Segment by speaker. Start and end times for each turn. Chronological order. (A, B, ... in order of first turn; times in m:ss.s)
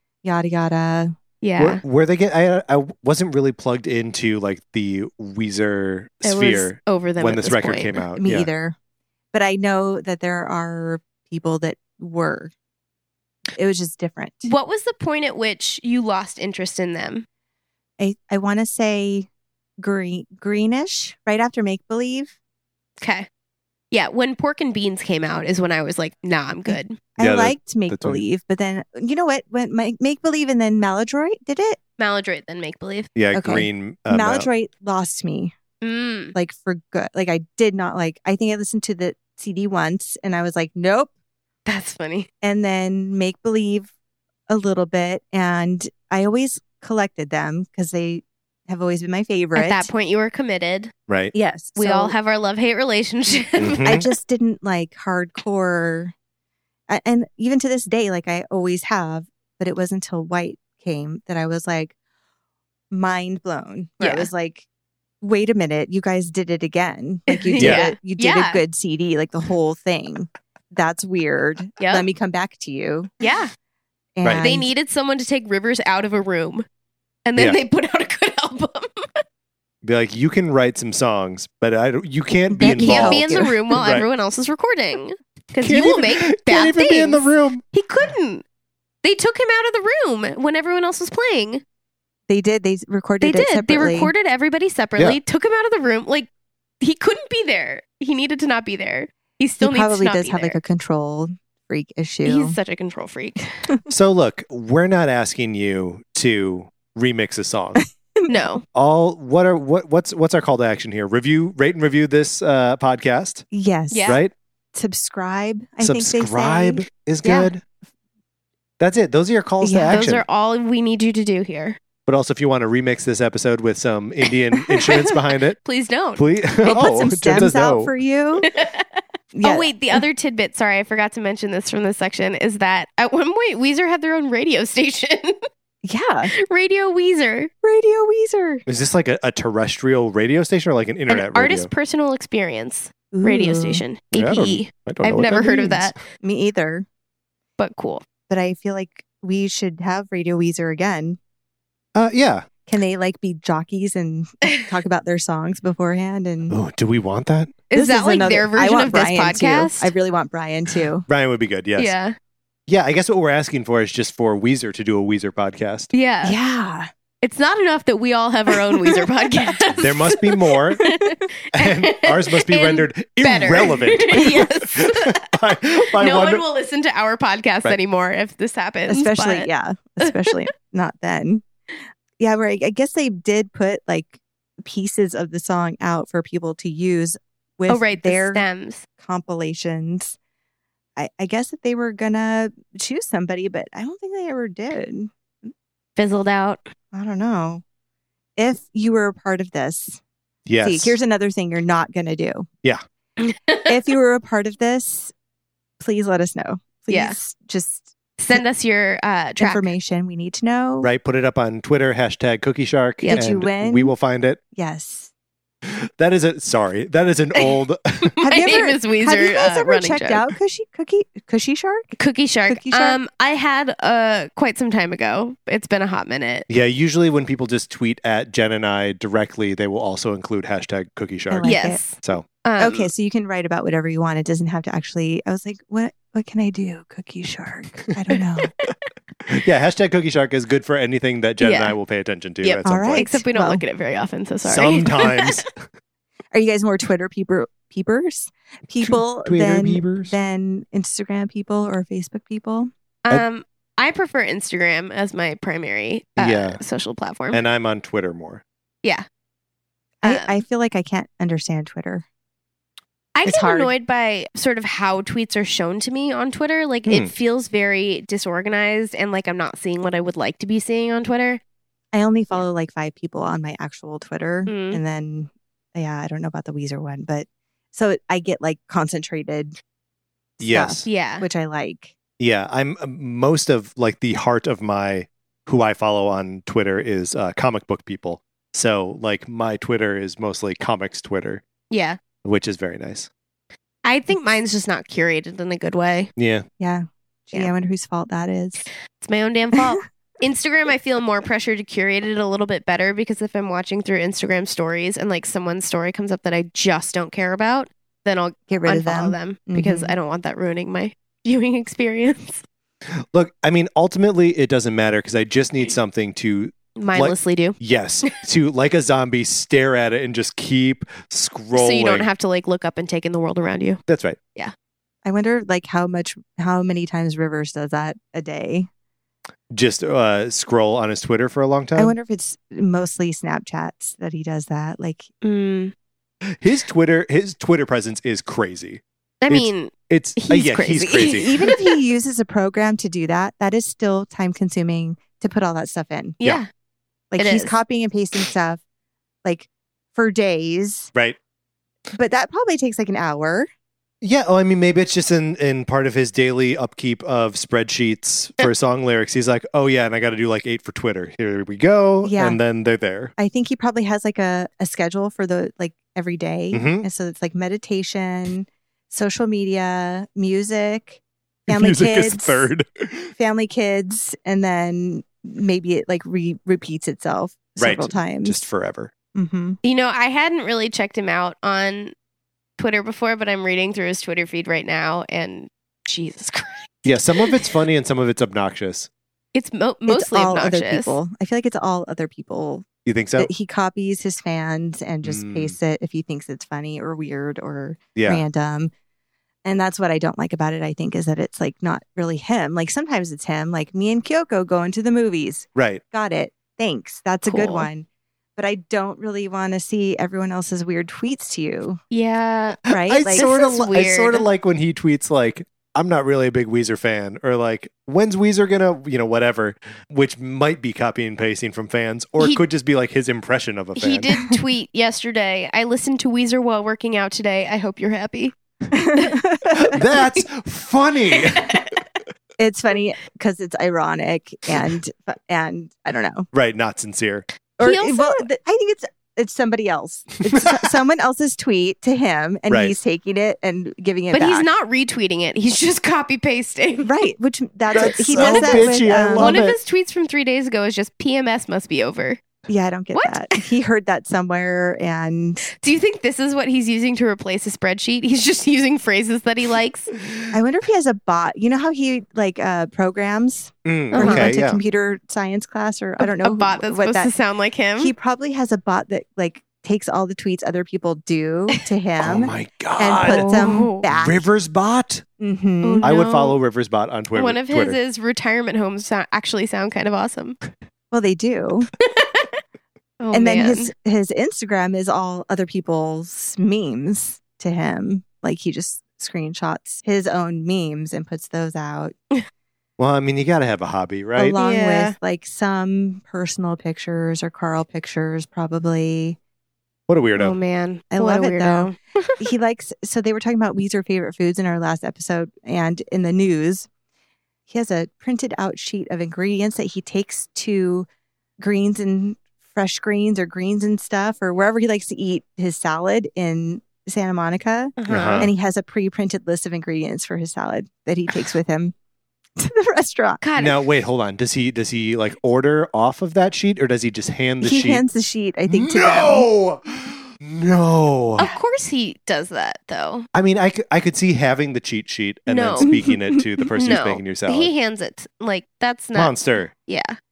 0:00.2-0:01.1 A
0:01.4-0:01.8 B
0:01.6-0:08.5 C
0:06.2-0:08.0 B
0:08.2-0:08.7 A
0:09.3-0:12.5 A
0:13.6-0:14.5 A
0:14.4-0:17.2 B
0:18.0-0:19.3 A
0:19.8-0:22.3 A
0:23.0-0:23.3 B
0:23.9-0:27.0 B
0:26.7-0:31.8 A
0:27.2-0:28.2 C
0:32.0-0:33.1 B
0:33.2-0:34.5 C
0:33.3-0:35.5 A
0:35.8-0:36.3 B
0:36.3-0:41.1 A
0:41.6-0:42.3 B
0:42.4-0:43.9 A
0:44.5-0:49.9 A
0:49.5-0:50.9 B
0:51.1-0:51.3 C
0:51.3-0:52.1 A
0:51.8-0:54.0 B
0:53.6-0:54.1 C
0:53.8-0:56.1 A
0:56.9-1:01.9 A
1:02.9-1:04.6 A
1:04.0-1:04.3 B
1:05.2-1:13.1 A
1:07.3-1:08.6 B
1:07.6-1:07.8 C
1:11.8-1:12.0 B
1:13.2-1:13.5 B
1:14.2-1:14.7 A
1:14.4-1:16.6 B
1:17.2-1:19.2 B
1:19.8-1:24.1 C
1:22.5-1:23.6 A
1:22.8-1:28.4 B
1:25.6-1:27.6 C
1:29.0-1:31.6 B
1:32.3-1:34.1 A
1:33.2-1:36.3 B
1:36.8-1:40.6 B
1:39.6-1:42.6 A
1:42.2-1:43.5 B
1:43.9-1:47.8 C
1:48.3-1:48.6 B
1:48.7-1:53.4 C
1:53.5-1:54.2 A
1:53.9-1:54.2 B
1:54.0-1:54.3 C
1:54.7-1:57.5 A
1:55.8-1:57.6 C
1:57.2-1:57.5 B
1:58.8-2:00.2 C
1:59.6-2:00.0 A
1:59.9-2:01.8 B
2:02.0-2:05.6 C
2:04.6-2:06.2 B
2:06.2-2:07.9 C
2:06.6-2:08.5 A
2:08.4-2:15.5 B
2:09.3-2:10.0 A
2:15.8-2:16.3 A
2:16.3-2:17.5 B
2:17.6-2:18.6 A
2:18.7-2:21.7 C
2:21.1-2:26.0 B
2:23.1-2:23.8 A
2:24.1-2:25.8 C
2:26.2-2:26.8 A
2:27.6-2:28.0 B
2:28.3-2:31.2 A
2:31.9-2:32.5 C
2:32.7-2:36.6 A
2:36.5-2:37.6 C
2:37.7-2:39.9 B
2:37.7-2:41.0 A
2:41.1-2:41.9 C
2:41.8-2:42.2 B
2:42.7-2:45.9 C
2:45.9-2:46.4 B
2:46.2-2:46.9 A
2:47.2-2:59.5 B
2:48.5-2:49.0 A
2:49.7-2:50.8 C
2:50.8-2:51.2 A
2:51.5-2:56.4 C
2:58.9-3:01.4 A
3:00.0-3:00.3 B
3:02.2-3:08.4 A
3:07.7-3:08.8 B
3:09.0-3:10.1 A
3:11.0-3:15.1 A
3:16.0-3:16.7 B
3:16.9-3:17.6 A
3:18.4-3:20.0 A
3:20.5-3:21.0 C
3:20.6-3:22.5 A
3:23.2-3:23.7 B
3:23.7-3:25.1 A
3:25.8-3:28.4 A
3:26.9-3:27.2 B
3:28.2-3:29.6 B
3:29.4-3:30.9 A
3:30.8-3:34.4 C
3:33.0-3:33.3 B
3:33.1-3:33.9 A
3:34.5-3:35.1 A
3:35.7-3:38.1 C
3:38.2-3:42.0 A
3:38.2-3:40.2 B
3:42.0-3:46.4 B
3:42.5-3:43.0 A
3:46.5-3:52.2 C
3:51.3-3:51.8 A
3:51.4-3:52.9 B
3:52.6-3:58.5 A
3:58.4-3:58.7 B
3:59.3-4:03.0 C
4:01.4-4:01.7 B
4:02.4-4:05.4 B
4:02.6-4:03.6 A
4:04.4-4:05.6 C
4:06.3-4:12.7 A
4:08.8-4:10.1 C
4:13.0-4:17.4 B
4:16.2-4:16.6 C
4:17.3-4:18.4 C
4:20.0-4:22.0 A
4:20.0-4:20.4 B
4:23.1-4:31.4 B
4:23.2-4:23.7 A
4:31.9-4:39.6 A
4:34.5-4:34.8 B
4:40.4-4:41.9 A
4:40.4-4:40.8 C
4:40.8-4:41.2 B
4:42.2-4:51.4 C
4:51.7-4:52.0 B
4:52.2-4:53.1 C
4:53.8-4:56.1 B
4:56.2-4:56.4 C
4:56.6-4:58.6 A
4:59.0-5:12.4 B
5:08.5-5:09.9 A
5:13.1-5:22.1 C
5:16.8-5:18.1 B
5:21.5-5:23.8 B
5:23.9-5:24.2 C
5:25.0-5:28.7 A
5:29.5-5:32.0 C
5:31.8-5:35.1 A
5:35.2-5:35.7 B
5:36.4-5:41.3 C
5:39.2-5:41.8 B
5:40.4-5:46.2 A
5:46.2-5:46.5 B
5:47.1-5:48.6 A
5:47.2-5:47.5 B
5:49.2-5:50.9 A
5:51.9-5:53.5 A
5:54.0-6:03.1 C
6:02.0-6:02.4 A
6:03.2-6:12.5 A
6:06.5-6:06.9 C
6:11.5-6:13.1 C
6:13.2-6:18.4 A
6:17.6-6:18.9 C
6:19.1-6:19.6 A
6:19.6-6:21.9 B
6:22.6-6:27.5 B
6:26.8-6:28.9 C
6:29.3-6:31.0 B
6:29.9-6:32.6 A
6:32.8-6:33.3 C
6:33.2-6:38.7 A
6:35.0-6:35.5 C
6:38.0-6:38.2 C
6:39.4-6:47.8 A
6:45.6-6:45.8 C
6:47.2-6:47.7 B
6:48.4-6:51.8 A
6:51.9-6:54.3 B
6:52.7-6:53.2 A
6:52.7-7:04.1 C
7:03.8-7:08.3 B
7:08.7-7:09.8 A
7:09.5-7:11.6 C
7:11.1-7:11.8 B
7:12.4-7:16.3 A
7:16.3-7:17.3 C
7:17.6-7:24.5 A
7:17.6-7:18.2 B
7:20.3-7:20.6 C
7:22.5-7:22.8 C
7:24.1-7:26.9 B
7:26.8-7:29.4 A
7:27.7-7:29.6 C
7:27.7-7:32.2 B
7:32.5-7:35.5 A
7:32.9-7:33.4 B
7:35.6-7:39.9 B
7:40.3-7:47.1 A
7:43.6-7:44.6 C
7:43.9-7:44.3 B
7:46.0-7:47.9 B
7:47.8-7:54.2 A
7:52.0-7:55.0 C
7:53.1-7:53.8 B
7:55.2-7:55.9 A
7:55.6-7:56.4 B
7:55.8-7:57.8 C
7:57.1-8:00.4 B
8:00.9-8:01.7 A
8:01.8-8:02.3 B
8:03.0-8:03.7 B
8:03.1-8:11.9 A
8:12.8-8:14.4 C
8:14.2-8:19.2 A
8:14.4-8:15.0 B
8:19.9-8:20.4 C
8:20.2-8:22.1 B
8:20.9-8:26.7 A
8:27.5-8:30.9 A
8:31.4-8:41.7 A
8:37.8-8:38.3 B
8:37.9-8:38.3 C
8:42.4-8:43.2 A
8:43.2-8:43.6 B
8:43.4-8:47.8 C
8:47.4-8:49.3 A
8:48.5-8:51.3 C
8:51.2-8:53.1 B
8:53.1-8:57.5 C
8:55.3-8:55.7 B
8:55.6-8:56.2 A
8:56.5-9:00.0 B
8:58.9-8:59.5 C